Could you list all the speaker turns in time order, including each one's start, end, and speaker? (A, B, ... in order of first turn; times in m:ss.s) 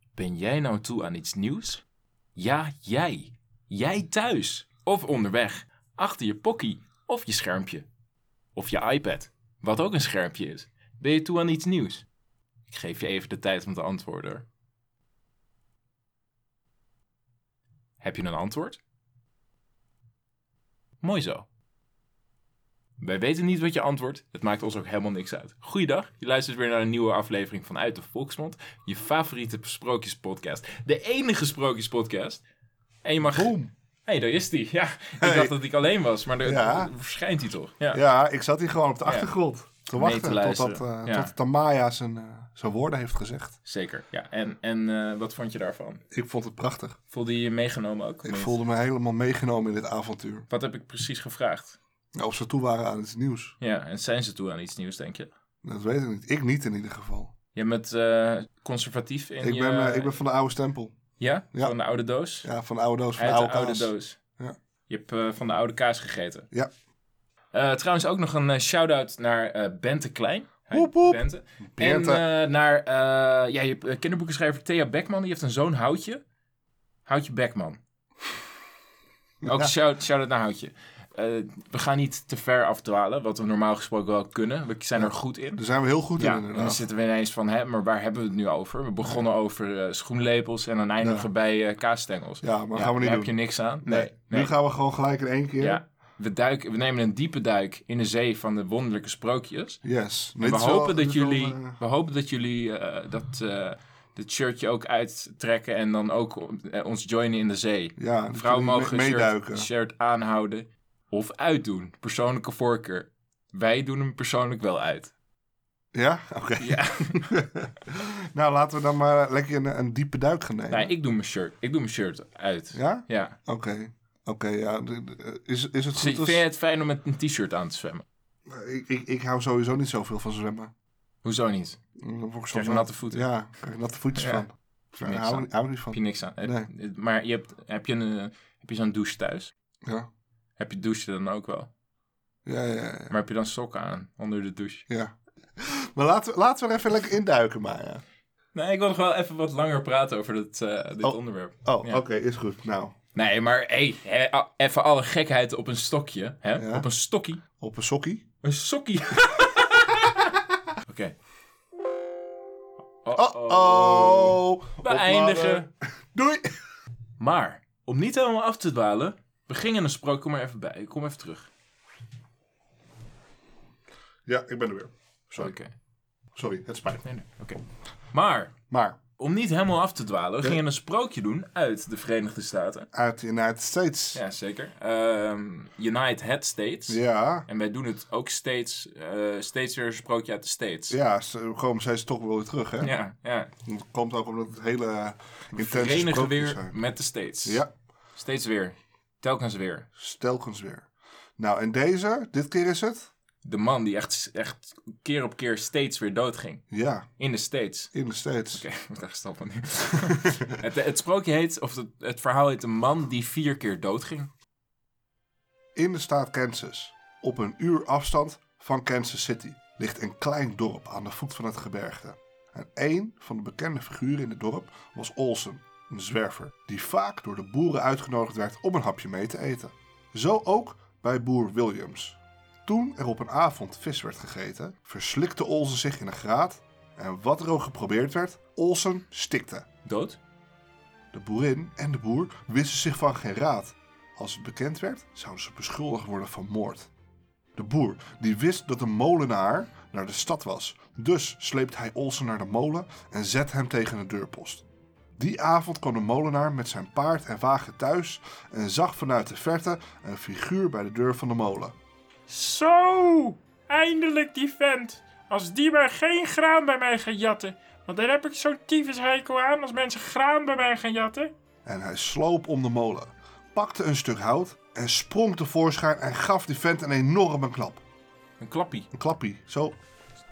0:00.2-0:01.8 A
0:02.4-0:07.9 A
0:08.5-0:12.0 A
0:12.7-0:14.4 A
0:18.0-0:18.8 A
0:21.0-0:21.5 A
0:23.0-0:32.4 A
0:33.0-0:38.0 A
0:33.2-0:33.7 B
0:35.2-0:35.6 B
0:36.4-0:36.9 B
0:37.9-0:43.6 B
0:39.0-0:39.3 A
0:39.9-0:41.3 A
0:43.6-0:46.0 A
0:46.1-0:47.0 B
0:47.1-0:48.5 A
0:48.2-0:50.5 B
0:50.5-0:51.8 A
0:52.1-0:53.5 B
0:53.6-0:55.3 A
0:55.6-0:57.3 B
0:57.5-1:00.2 A
0:59.4-1:01.0 B
1:01.2-1:02.5 A
1:02.4-1:04.5 B
1:03.2-1:04.2 A
1:04.9-1:06.5 A
1:07.5-1:16.2 A
1:10.7-1:12.2 B
1:17.0-1:17.8 A
1:19.4-1:19.7 B
1:19.4-1:25.6 A
1:25.0-1:26.8 B
1:26.2-1:34.5 A
1:31.0-1:31.3 B
1:32.4-1:35.8 B
1:35.6-1:39.8 A
1:39.8-1:41.8 B
1:40.4-1:55.1 A
1:48.0-1:49.7 B
1:55.9-2:00.9 B
1:56.6-1:57.2 A
2:00.7-2:03.4 A
2:02.7-2:06.4 B
2:06.0-2:08.0 A
2:08.5-2:10.7 B
2:11.2-2:11.8 A
2:12.0-2:16.7 B
2:12.5-2:13.2 A
2:14.2-2:14.4 A
2:15.0-2:19.5 A
2:20.6-2:21.7 A
2:22.4-2:23.1 B
2:23.1-2:24.8 A
2:24.9-2:28.0 B
2:28.5-2:32.0 A
2:31.0-2:33.0 B
2:33.1-2:37.4 A
2:36.6-2:36.9 B
2:37.6-2:38.2 B
2:38.4-2:40.2 A
2:40.8-2:41.1 A
2:43.0-2:45.7 A
2:43.1-2:46.6 B
2:47.2-2:51.5 A
2:54.2-2:55.6 B
2:55.4-2:55.7 A
2:56.3-2:57.0 B
2:57.0-2:57.6 A
2:58.1-2:58.5 A
2:58.7-2:59.0 B
2:59.2-3:02.9 A
3:02.9-3:04.2 B
3:04.1-3:11.0 A
3:06.9-3:07.5 B
3:10.9-3:12.9 B
3:12.8-3:13.5 A
3:13.6-3:16.8 B
3:15.5-3:17.6 A
3:18.1-3:19.9 A
3:20.0-3:23.1 B
3:23.4-3:26.6 A
3:26.7-3:27.0 B
3:27.2-3:27.9 A
3:27.9-3:28.6 B
3:28.5-3:34.3 A
3:35.8-3:59.6 B
3:59.8-4:00.2 A
4:01.1-4:06.9 B
4:07.6-4:14.6 B
4:15.2-4:21.7 B
4:22.3-4:31.3 C
4:31.6-4:37.8 B
4:38.4-4:38.9 A
4:38.9-4:39.8 B